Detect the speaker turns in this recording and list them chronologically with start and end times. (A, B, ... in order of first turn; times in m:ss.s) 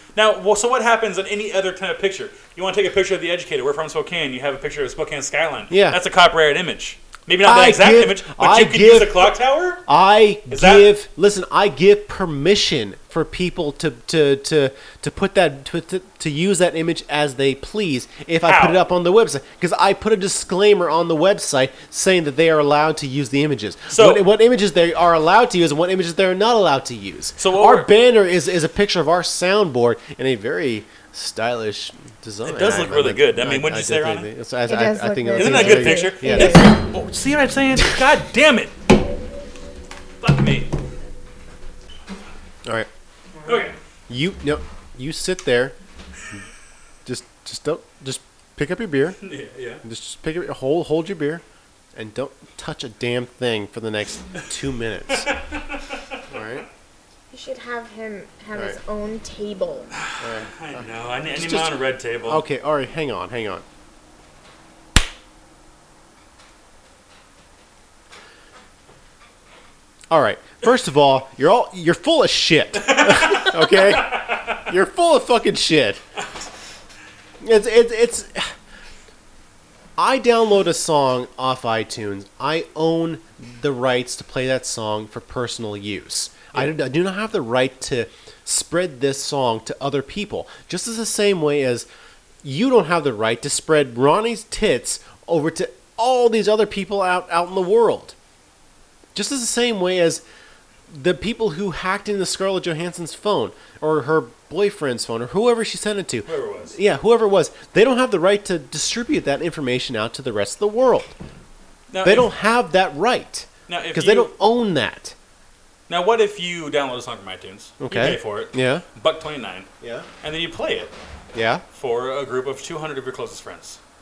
0:00.1-0:09.8 A
0:05.7-0:06.0 B
0:07.4-0:09.3 B
0:09.9-0:36.7 B
0:10.5-0:10.9 A
0:18.4-0:18.8 A
0:23.9-0:24.2 A
0:27.4-0:27.9 A
0:32.4-0:34.3 A
0:34.7-0:36.7 C
0:35.4-0:38.7 A
0:40.2-0:40.7 A
0:43.4-0:43.7 A
0:44.1-0:45.7 B
0:47.0-0:49.2 B
0:49.2-0:49.8 A
0:49.8-0:51.4 B
0:51.9-0:55.3 B
0:55.1-0:56.2 A
0:56.3-0:56.7 B
0:57.3-0:59.9 C
0:59.9-1:02.4 A
1:00.2-1:03.6 B
1:10.1-1:16.0 B
1:12.8-1:14.6 A
1:17.4-1:18.5 B
1:20.0-1:31.9 B
1:32.4-1:38.1 B
1:39.1-1:40.2 B
1:40.9-1:51.1 B
1:46.3-1:46.8 A
1:51.9-1:52.3 A
1:52.0-1:55.1 B
1:53.7-1:54.3 A
1:55.9-1:59.7 A
1:57.8-1:58.8 B
1:59.8-2:00.1 B
2:00.2-2:00.9 A
2:01.3-2:01.6 B
2:01.7-2:03.8 A